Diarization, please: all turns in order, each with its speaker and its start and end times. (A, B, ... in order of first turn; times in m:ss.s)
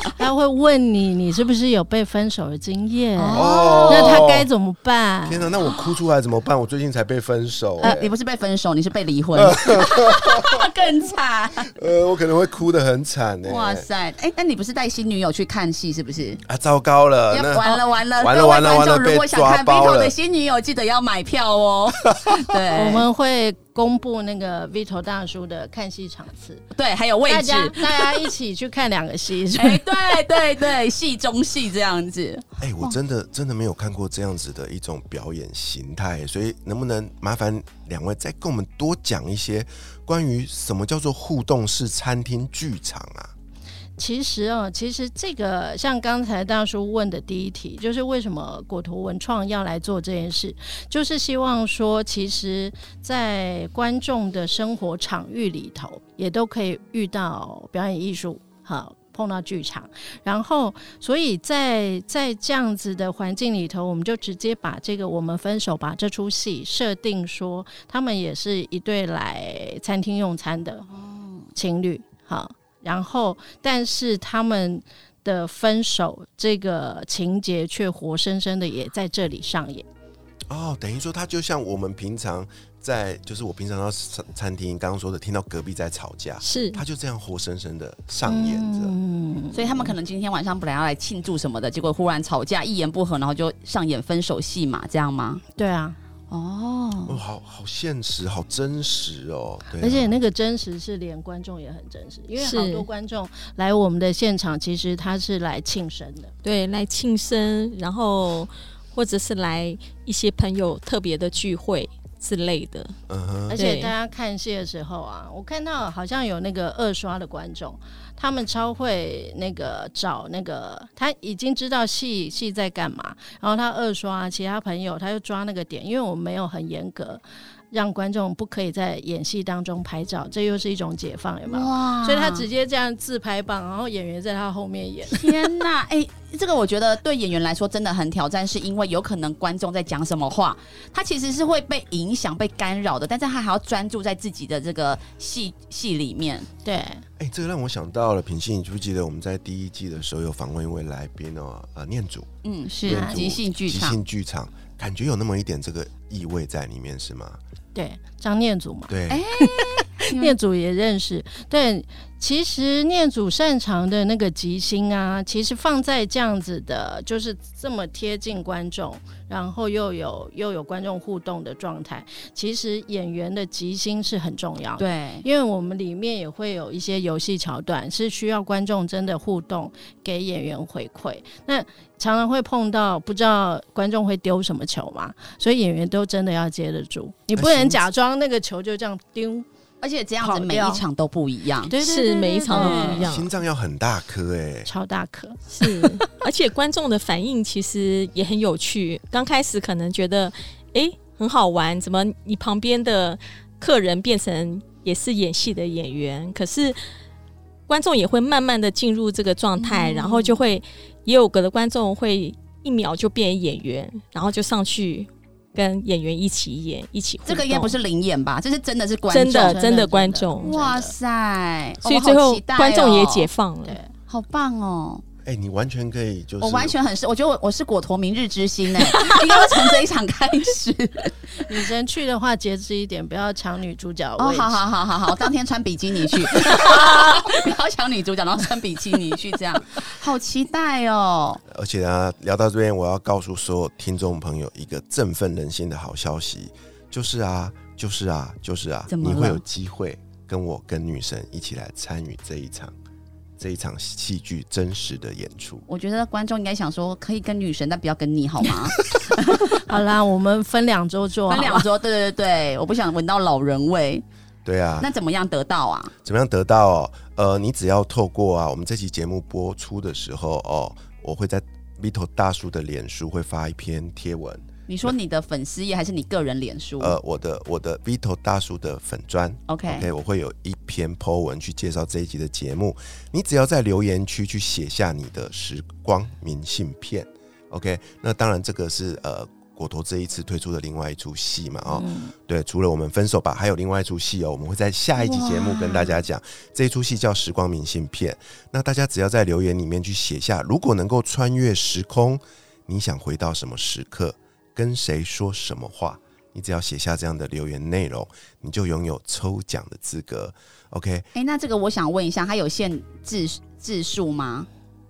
0:00.2-0:05.5 A
0:03.2-0:04.3 B
0:03.3-0:04.5 C
0:05.2-0:08.0 C
0:07.8-0:11.7 B
0:07.8-0:08.1 A
0:09.4-0:10.6 C
0:11.7-0:13.8 C
0:13.4-0:16.4 B
0:16.4-0:20.1 C
0:17.3-0:23.1 B
0:22.7-0:26.6 A
0:26.7-0:28.3 B
0:27.3-0:30.1 A
0:29.5-0:33.0 B
0:32.6-0:43.3 C
0:44.0-1:10.8 A
1:10.9-1:11.5 B
1:11.5-1:19.8 A
1:20.5-1:28.9 C
1:26.4-1:26.8 D
1:28.2-1:29.9 A
1:29.5-1:35.4 B
1:35.6-1:36.0 A
1:36.3-1:37.2 B
1:37.1-1:40.1 C
1:39.8-1:46.3 A
1:42.4-1:42.9 D
1:46.4-1:52.9 D
1:53.1-1:53.6 C
1:53.5-2:15.3 A
1:53.5-1:53.9 D
2:11.5-2:12.4 B
2:15.1-2:26.5 B
2:26.6-2:27.0 A
2:27.2-2:32.3 C
2:32.4-2:34.0 B
2:32.8-2:37.4 C
2:32.9-2:33.3 A
2:37.7-3:09.5 A
2:38.9-2:39.2 C
2:39.1-2:40.3 B
2:54.8-2:55.2 B
3:07.3-3:07.8 C
3:09.8-3:11.7 B
3:10.2-3:10.8 A
3:11.7-3:13.1 A
3:11.8-3:13.3 D
3:12.5-3:13.0 B
3:13.0-3:14.7 C
3:14.6-3:16.0 A
3:15.5-3:26.8 D
3:27.7-3:37.7 D
3:29.6-3:30.4 B
3:37.2-3:39.6 B
3:39.1-3:40.5 D
3:39.3-3:40.9 A
3:40.4-3:43.3 B
3:41.8-3:43.8 D
3:43.6-3:43.9 A
3:44.1-3:45.0 B
3:45.2-3:46.8 C
3:46.4-3:51.2 B
3:51.5-3:54.6 A
3:54.2-4:01.4 B
4:01.5-4:12.7 C
4:08.9-4:09.4 B
4:13.4-4:15.6 C
4:15.7-4:19.2 B
4:19.6-4:21.6 A
4:21.3-4:24.0 B
4:24.4-4:24.9 C
4:24.8-4:25.9 B
4:26.0-4:34.9 C
4:34.7-4:37.0 B
4:36.8-5:11.1 C
4:39.5-4:39.9 B
4:51.7-4:52.1 A
4:55.0-4:56.0 B
5:11.1-5:14.5 B